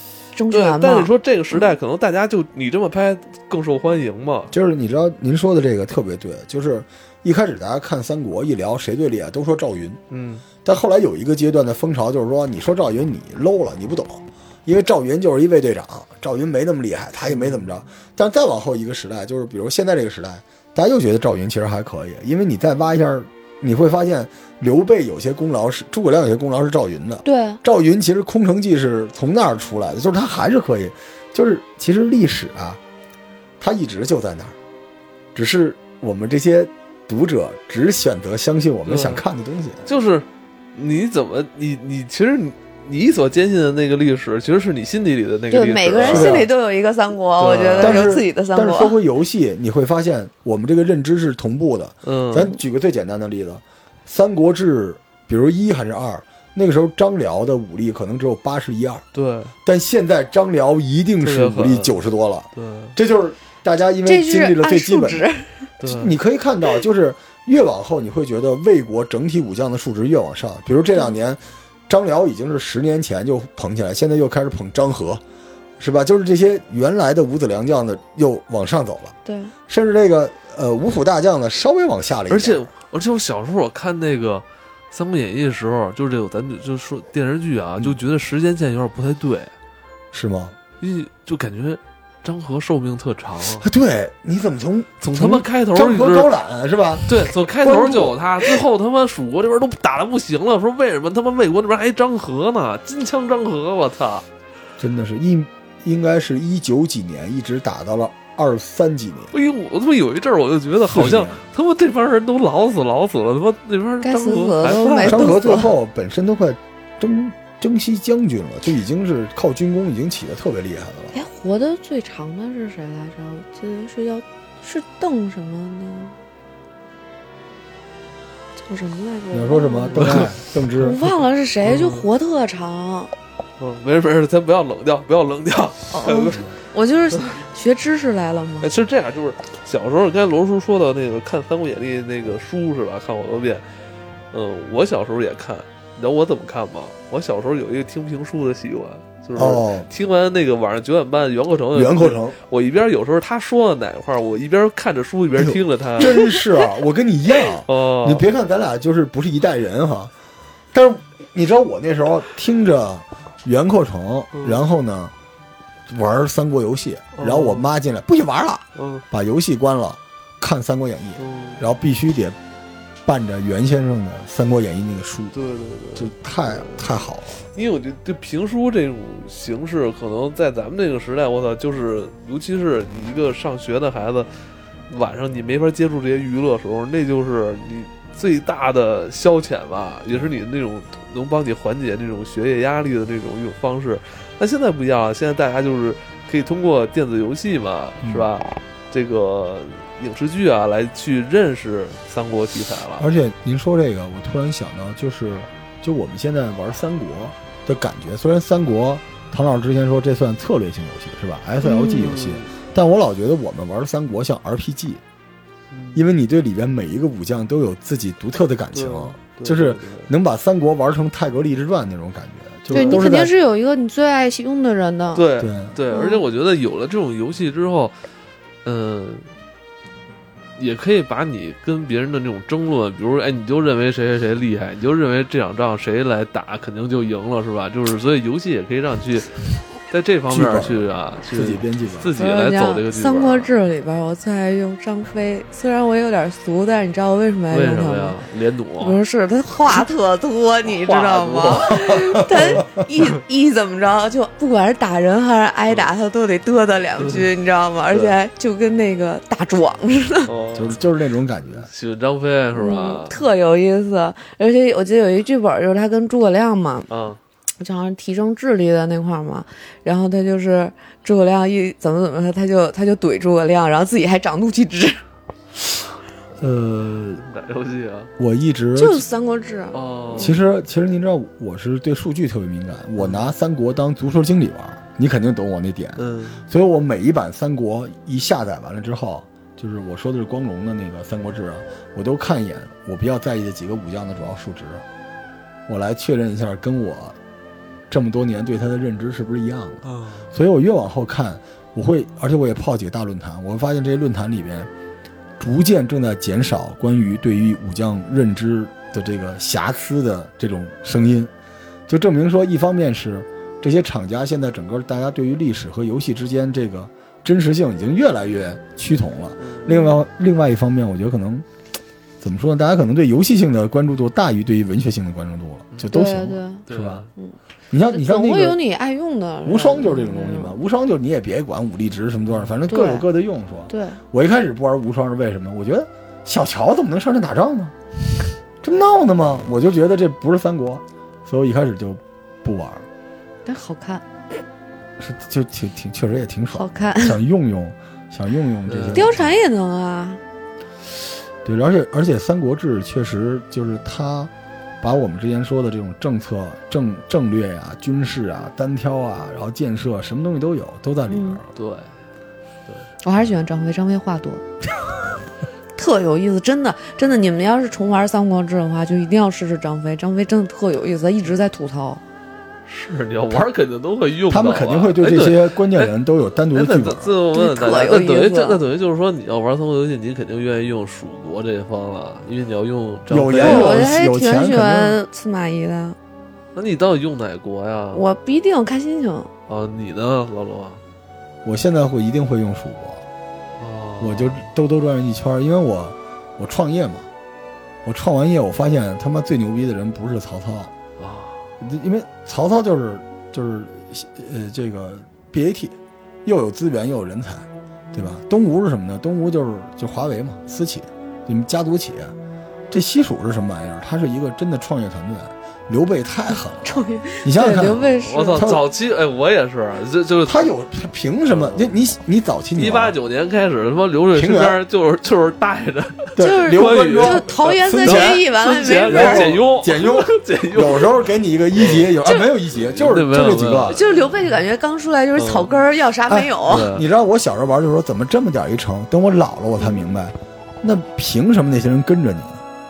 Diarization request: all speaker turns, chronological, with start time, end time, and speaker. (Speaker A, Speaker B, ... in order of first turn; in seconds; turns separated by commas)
Speaker A: 0.3-1.7, Speaker B: 0.5-4.5, Speaker C: 4.5-10.0, Speaker B: 10.1-10.4, Speaker C: 10.6-32.8, Speaker B: 17.3-17.6, Speaker A: 27.2-27.6, Speaker C: 33.6-34.5, Speaker C: 35.3-39.8, Speaker B: 38.9-39.2, Speaker B: 39.9-46.5, Speaker A: 45.5-49.0, Speaker C: 46.0-46.5, Speaker B: 47.4-48.1, Speaker C: 47.8-59.0, Speaker B: 52.0-52.5, Speaker B: 59.1-59.5, Speaker C: 59.6-65.2, Speaker B: 61.2-62.0, Speaker B: 62.5-63.0, Speaker A: 64.0-65.7, Speaker B: 65.8-66.1, Speaker C: 65.8-75.2, Speaker C: 75.8-79.1, Speaker A: 79.2-79.5, Speaker C: 79.7-82.7, Speaker B: 82.3-89.5, Speaker C: 90.1-90.5, Speaker B: 90.8-93.7, Speaker C: 93.6-98.6, Speaker B: 95.0-96.3, Speaker B: 97.1-104.2, Speaker C: 104.8-109.3, Speaker B: 109.3-115.3, Speaker C: 110.8-111.4, Speaker A: 114.0-115.7, Speaker C: 115.0-121.2, Speaker A: 121.1-126.2, Speaker A: 128.6-133.1, Speaker C: 129.3-131.0, Speaker B: 129.9-130.3, Speaker B: 131.6-132.1, Speaker B: 133.6-136.4, Speaker A: 135.9-138.7, Speaker B: 137.1-137.4, Speaker B: 138.6-143.6, Speaker B: 144.3-156.3, Speaker C: 149.3-149.9, Speaker C: 151.7-152.4, Speaker C: 155.4-160.1, Speaker B: 157.6-158.2, Speaker C: 160.7-165.1, Speaker B: 164.3-164.7, Speaker C: 165.9-172.4, Speaker B: 167.2-167.7, Speaker B: 168.7-169.0, Speaker B: 171.2-171.6, Speaker C: 173.0-175.3, Speaker B: 175.3-176.9, Speaker C: 175.9-177.4, Speaker B: 177.5-184.3, Speaker B: 184.9-203.0, Speaker C: 203.0-215.0, Speaker A: 211.6-212.1, Speaker B: 211.9-212.5, Speaker B: 215.7-216.0, Speaker C: 215.9-223.3, Speaker B: 218.7-220.1, Speaker B: 222.7-223.1, Speaker A: 222.7-225.3, Speaker B: 225.1-227.9, Speaker C: 225.4-225.8, Speaker A: 225.9-226.2, Speaker B: 228.6-229.3, Speaker B: 230.6-243.5, Speaker C: 240.3-242.1, Speaker A: 242.1-248.2, Speaker B: 247.5-249.0, Speaker A: 248.8-260.3, Speaker B: 250.7-253.1, Speaker C: 251.7-252.8, Speaker B: 257.0-257.3, Speaker B: 257.9-258.1, Speaker B: 260.2-260.8, Speaker C: 260.5-261.7, Speaker B: 261.6-263.2, Speaker A: 262.5-266.9, Speaker B: 266.9-267.2, Speaker A: 267.6-275.0, Speaker C: 276.4-277.2, Speaker B: 277.2-278.1, Speaker C: 278.2-279.0, Speaker A: 278.8-280.4, Speaker B: 279.7-280.4, Speaker C: 280.2-294.8, Speaker B: 283.0-283.3, Speaker B: 286.0-286.5, Speaker C: 295.7-297.2, Speaker C: 297.9-304.7, Speaker B: 299.8-300.3, Speaker C: 305.4-311.3, Speaker C: 311.9-321.4, Speaker B: 319.4-319.7, Speaker A: 319.6-319.9, Speaker C: 322.2-327.0, Speaker A: 325.9-327.4, Speaker B: 326.7-327.1, Speaker C: 327.7-328.6, Speaker A: 327.9-330.6, Speaker C: 329.4-337.7, Speaker A: 332.7-333.1, Speaker A: 333.7-334.0, Speaker C: 338.6-342.9, Speaker A: 343.4-344.0, Speaker C: 345.0-349.3, Speaker A: 346.5-347.2, Speaker B: 348.7-349.1, Speaker A: 348.9-350.2, Speaker C: 351.4-354.3, Speaker C: 354.8-361.5, Speaker A: 361.1-361.4, Speaker B: 361.5-361.9, Speaker A: 363.0-364.4, Speaker A: 365.8-372.0, Speaker B: 372.7-375.9, Speaker C: 374.3-377.1, Speaker B: 376.5-383.9, Speaker A: 377.3-378.6, Speaker C: 383.1-385.0, Speaker A: 383.4-386.0, Speaker B: 386.5-388.0, Speaker A: 387.9-389.3, Speaker B: 389.5-390.8, Speaker C: 391.4-393.0, Speaker B: 393.6-394.4, Speaker C: 394.0-397.1, Speaker C: 397.8-400.7, Speaker B: 401.0-401.5, Speaker C: 401.6-412.1, Speaker C: 412.7-418.6, Speaker A: 416.6-418.6, Speaker B: 417.6-420.5, Speaker C: 420.2-422.9, Speaker B: 421.3-421.7, Speaker B: 422.6-430.9, Speaker C: 424.1-424.6, Speaker C: 426.1-428.2, Speaker A: 426.2-429.4, Speaker C: 428.9-433.8, Speaker B: 431.5-432.0, Speaker B: 432.6-434.0, Speaker A: 433.7-436.7, Speaker B: 435.1-435.5, Speaker C: 436.1-442.4, Speaker B: 436.4-436.8